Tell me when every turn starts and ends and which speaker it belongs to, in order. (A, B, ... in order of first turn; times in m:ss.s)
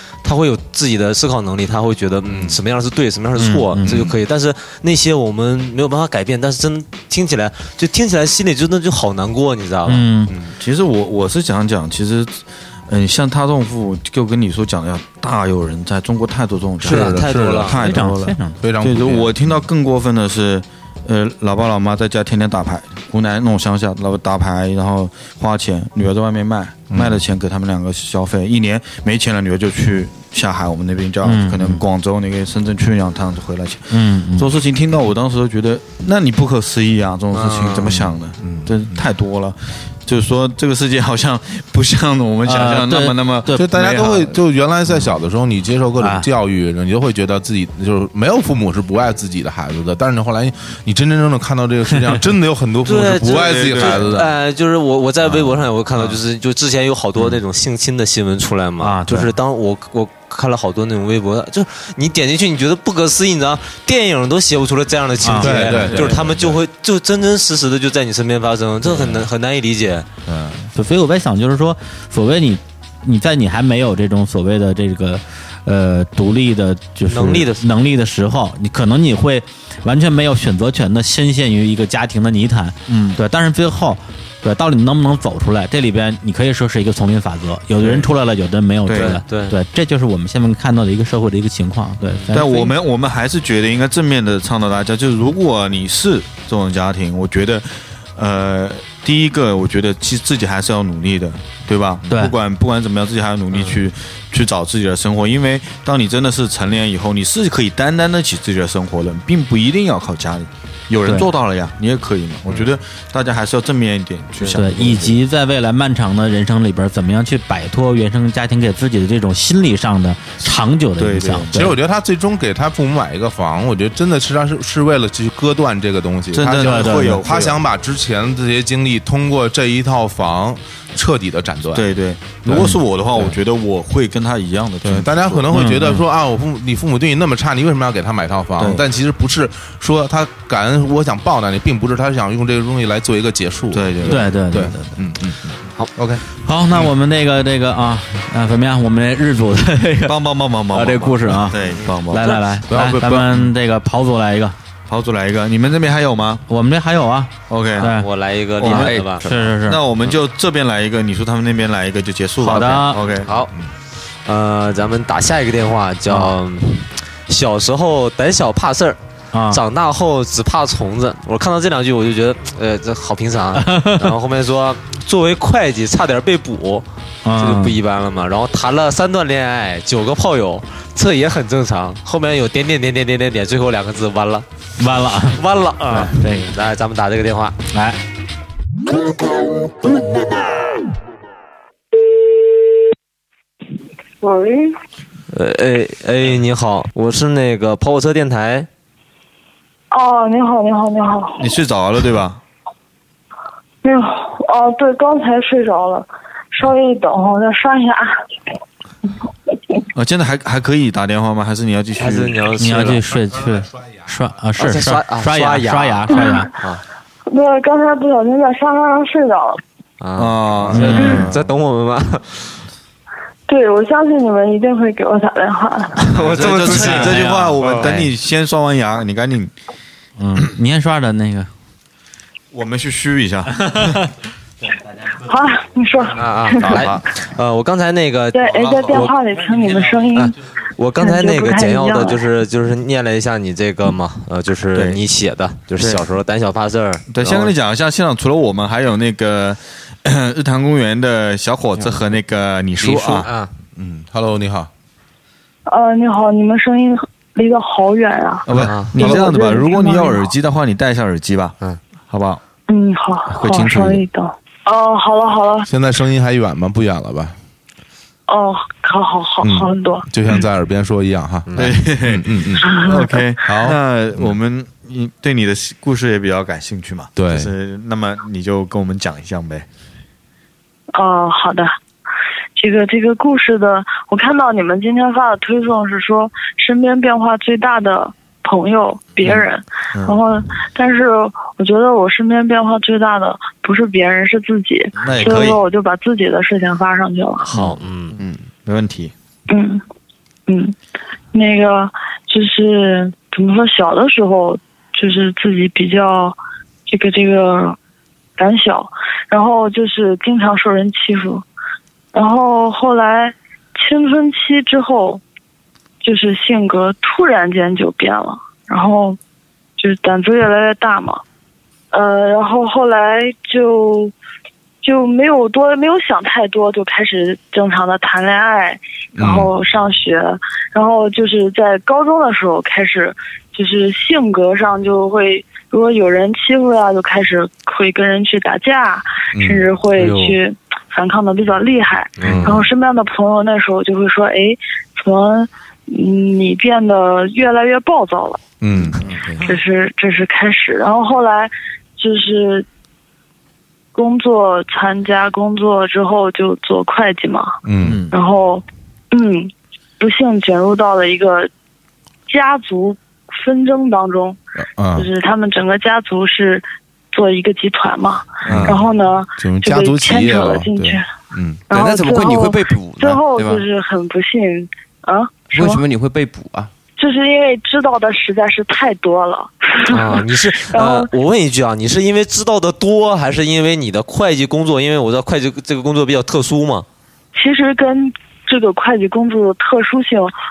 0:00.2-0:10.1 A
0:02.2-0:02.6 B
0:03.4-0:03.9 C
0:03.8-0:04.2 B
0:09.9-0:10.3 C
0:10.6-0:44.3 D
0:16.8-0:17.8 A
0:16.8-0:17.7 B
0:17.7-0:18.6 C
0:18.6-0:19.3 B
0:26.9-0:27.2 B
0:31.2-0:31.8 C
0:33.9-0:34.5 C
0:37.4-0:37.8 A
0:38.4-0:39.0 B
0:42.5-0:43.9 C
0:43.5-0:54.4 B
0:46.0-0:46.3 C
0:52.8-1:10.1 A
0:53.3-0:54.1 D
0:58.8-0:59.3 C
1:05.2-1:06.1 C
1:05.4-1:06.6 B
1:05.7-1:06.2 D
1:09.0-1:09.2 B
1:10.7-1:32.8 C
1:17.0-1:17.7 A
1:22.9-1:23.2 D
1:28.9-1:29.2 D
1:29.0-1:29.6 A
1:32.3-1:55.2 D
1:54.5-2:01.7 C
2:01.0-2:01.7 D
2:01.5-2:11.9 B
2:06.3-2:07.6 D
2:06.5-2:07.2 C
2:11.7-2:15.5 D
2:12.5-2:13.4 B
2:14.8-2:26.9 B
2:15.5-2:16.0 C
2:18.6-2:18.8 D
2:23.7-2:24.5 D
2:24.0-2:24.9 C
2:26.4-2:30.2 C
2:30.1-2:32.3 D
2:30.7-2:31.6 C
2:32.1-2:34.6 C
2:32.7-2:33.5 B
2:34.9-2:36.4 D
2:36.5-2:38.1 C
2:37.5-2:37.9 D
2:37.8-2:39.2 A
2:38.6-2:39.1 D
2:38.6-2:39.8 C
2:39.6-2:43.3 D
2:42.4-2:43.0 C
2:43.2-2:43.5 A
2:44.3-2:49.0 A
2:49.3-2:49.6 C
2:49.5-2:56.9 A
2:53.6-2:54.1 C
2:57.2-2:57.8 C
2:57.4-3:04.5 A
3:04.8-3:06.6 C
3:05.2-3:07.6 A
3:07.7-3:08.0 C
3:14.2-3:14.6 E
3:15.3-3:18.7 A
3:19.9-3:21.5 E
3:21.4-3:22.4 D
3:23.8-3:28.2 E
3:30.0-3:32.4 D
3:32.0-3:33.0 A
3:32.6-3:36.5 C
3:34.6-3:36.8 A
3:36.1-3:36.4 E
3:37.3-3:39.6 E
3:40.0-3:42.4 A
3:40.2-3:41.4 D
3:40.7-3:41.3 C
3:43.5-3:46.1 E
3:46.0-3:48.0 A
3:46.1-3:49.5 D
3:50.2-3:51.5 C
3:52.5-3:54.0 D
3:53.7-3:53.9 C
3:55.2-3:56.9 E
3:56.2-3:57.0 F
3:56.2-3:59.2 A
3:58.3-4:00.3 E
4:00.1-4:07.4 A
4:01.0-4:02.2 E
4:04.7-4:05.0 D
4:05.8-4:06.0 D
4:07.1-4:13.3 D
4:12.8-4:13.5 A
4:13.8-4:14.7 B
4:15.7-4:20.2 E
4:18.5-4:21.6 D
4:18.6-4:19.1 A
4:22.1-4:22.4 D
4:22.7-4:25.7 E
4:23.3-4:24.0 D
4:25.7-4:27.4 B
4:28.3-4:30.1 E
4:29.4-4:32.8 B
4:31.5-4:39.7 D
4:32.6-4:33.3 E
4:33.4-4:34.4 B
4:37.2-4:37.5 B
4:40.9-4:41.8 E
4:42.6-4:57.5 E
4:49.2-4:50.2 D
4:55.0-4:55.6 D
4:57.5-4:58.1 A
4:58.7-4:59.1 D
4:59.5-4:59.8 E
5:00.5-5:00.8 E
5:01.3-5:07.8 E
5:08.4-5:11.4 E
5:12.1-5:15.2 E
5:16.0-5:19.2 E
5:19.8-5:21.2 E
5:21.9-5:24.1 E
5:24.8-5:48.4 E
5:29.2-5:29.5 B
5:39.3-5:39.7 B
5:40.0-5:40.4 A
5:42.2-5:42.5 F
5:42.2-5:42.5 A
5:42.2-5:42.6 B
5:48.6-5:49.0 B
5:49.0-5:49.4 D
5:49.4-5:52.7 E
5:53.9-5:57.6 E
5:57.6-5:58.0 B
5:57.8-5:58.1 D
5:58.1-6:01.5 E
6:02.3-6:04.4 E
6:04.6-6:05.1 B
6:05.0-6:11.1 E
6:08.4-6:08.8 D
6:08.4-6:08.9 B
6:09.4-6:11.7 B
6:11.7-6:13.6 F
6:11.7-6:15.8 E
6:15.5-6:16.7 F
6:17.0-6:21.1 E
6:19.9-6:26.9 A
6:27.3-6:30.3 E